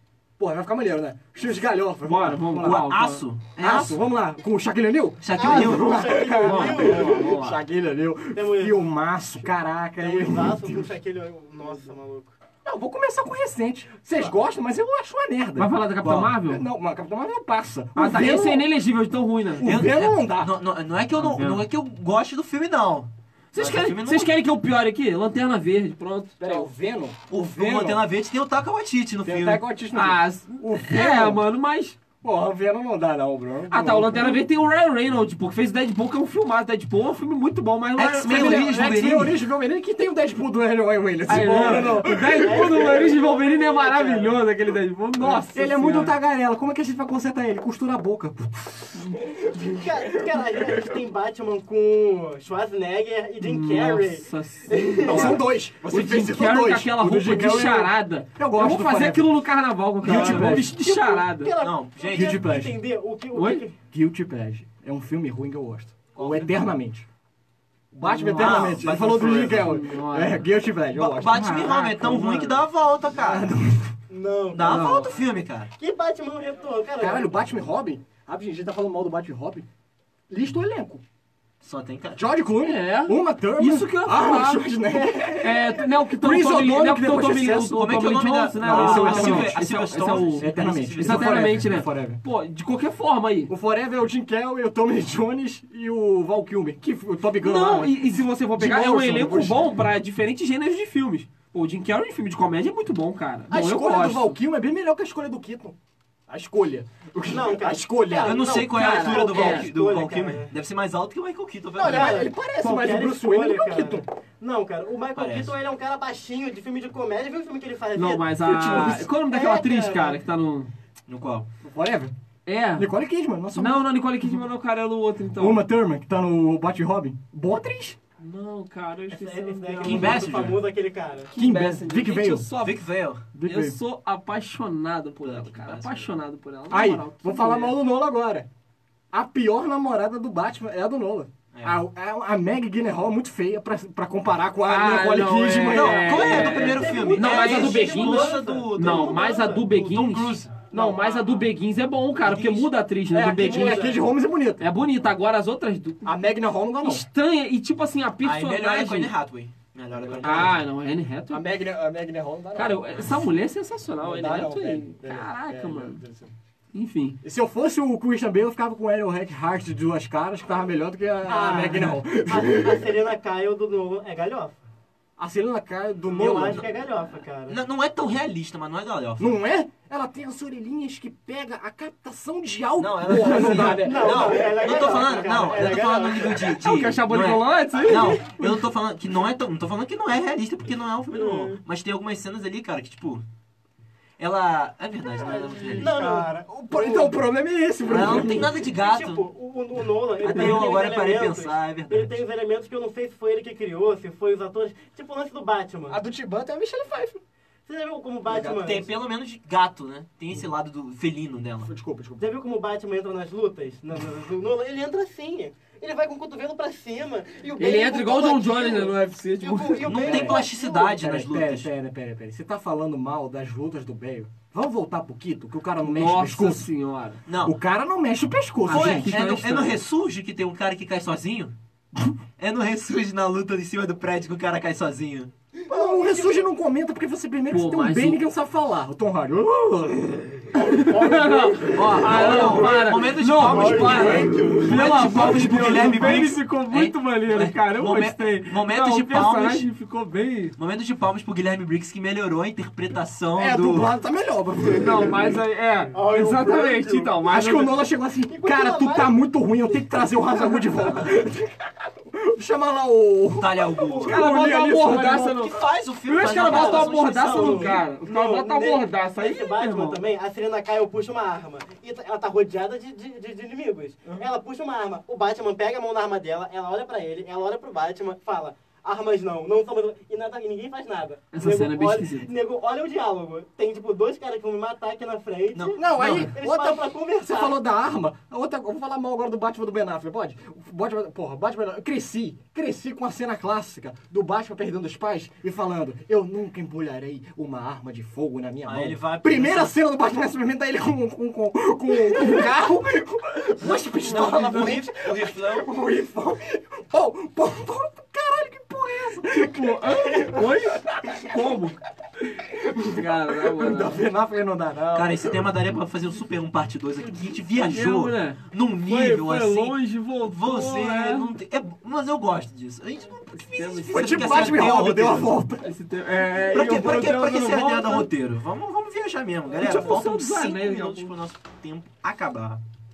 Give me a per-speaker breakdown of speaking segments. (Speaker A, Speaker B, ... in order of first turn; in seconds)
Speaker A: 0.4-2.8, 3.6-11.0, 12.6-18.6, 19.5-20.5, 26.4-28.0, 29.2-31.4, 32.2-34.4, 38.3-43.0, 45.2-51.0, 55.0-59.4, 60.0-60.8, 62.1-62.8, 63.9-67.0, 67.9-72.5, 73.1-74.0, 77.0-79.7, 80.3-81.0, 82.1-87.8, 88.6-89.6, 90.4-92.2, 93.5-99.7, 103.5-105.8, 106.3-108.5, 111.7-114.0, 121.6-122.1, 122.8-124.4, 125.4-128.0, 131.3-132.5, 133.3-133.8, 136.7-138.5, 139.1-146.3, 150.7-151.2, 153.1-154.7, 156.0-157.1, 160.2-160.6, 161.3-163.2, 164.0-166.3, 167.2-172.9, 175.2-176.7, 179.2-184.9, 195.8-198.6, 200.3-200.7, 205.9-207.2, 208.3-208.6, 211.6-212.3, 220.0-226.7, 227.4-229.1, 235.7-242.8, 243.5-246.3, 253.3-255.4, 257.3-265.5, 285.8-311.4, 312.2-315.5, 323.9-325.7, 329.6-330.0
Speaker B: 2.0-3.2, 6.4-7.6, 15.6-16.6, 17.9-19.7, 21.1-21.6, 23.5-26.7, 29.9-32.0, 33.7-38.7, 41.3-46.1, 53.4-61.5, 63.3-63.6, 68.0-70.4, 71.6-72.5, 74.7-75.1, 82.6-93.5, 97.4-104.4, 108.7-109.7, 117.9-120.7, 122.5-122.9, 123.5-125.6, 128.2-130.3, 131.3-132.8, 133.4-137.8, 144.6-153.9, 154.6-156.1, 156.8-159.1, 160.2-161.4, 162.6-166.0, 166.7-167.2, 183.1-183.8, 186.6-188.7, 217.6-220.0, 225.8-227.2, 228.7-229.8, 237.5-238.2, 240.5-250.6, 254.7-257.8, 264.0-270.0, 281.3-282.3, 286.0-286.3, 309.3-311.8, 312.9-314.0, 317.6-321.3, 323.3-324.6, 325.6-328.1, 329.5-331.1
Speaker C: 2.6-4.0, 5.2-6.7, 16.0-16.3, 19.6-24.3, 27.3-29.6, 38.0-39.4, 61.6-62.5, 66.1-66.5, 68.3-69.7, 70.9-73.5, 74.5-75.7, 81.6-82.2, 87.7-91.6, 108.2-112.3, 115.1-115.5, 121.1-121.5, 129.8-130.6, 132.6-133.2, 135.2-136.1, 141.5-141.8, 145.6-150.6, 152.2-152.7, 158.2-160.6, 177.5-179.3, 182.8-193.2, 194.2-196.2, 197.8-199.2, 200.2-202.2, 208.3-211.7, 219.8-221.7, 227.3-227.6, 228.7-231.5, 232.4-235.3, 241.7-249.7, 250.6-253.9, 260.8-261.1, 263.4-264.2, 265.3-267.8, 285.5-285.8, 298.6-299.7, 303.6-305.7, 314.9-325.4, 326.4-332.6
Speaker D: 5.4-7.3, 8.3-8.9, 10.0-12.4, 41.3-44.4, 49.7-55.4, 60.1-63.8, 74.1-74.9, 75.8-77.3, 107.3-110.5, 111.8-120.2, 129.1-131.3, 146.1-149.6, 153.4-154.0, 171.3-174.6, 176.1-177.6, 183.6-186.6, 191.1-191.6, 195.2-197.2, 197.9-206.0, 207.7-208.9, 212.2-220.9, 235.7-236.4, 240.9-242.7, 243.4-244.6, 255.9-257.2, 258.3-260.8, 266.2-287.6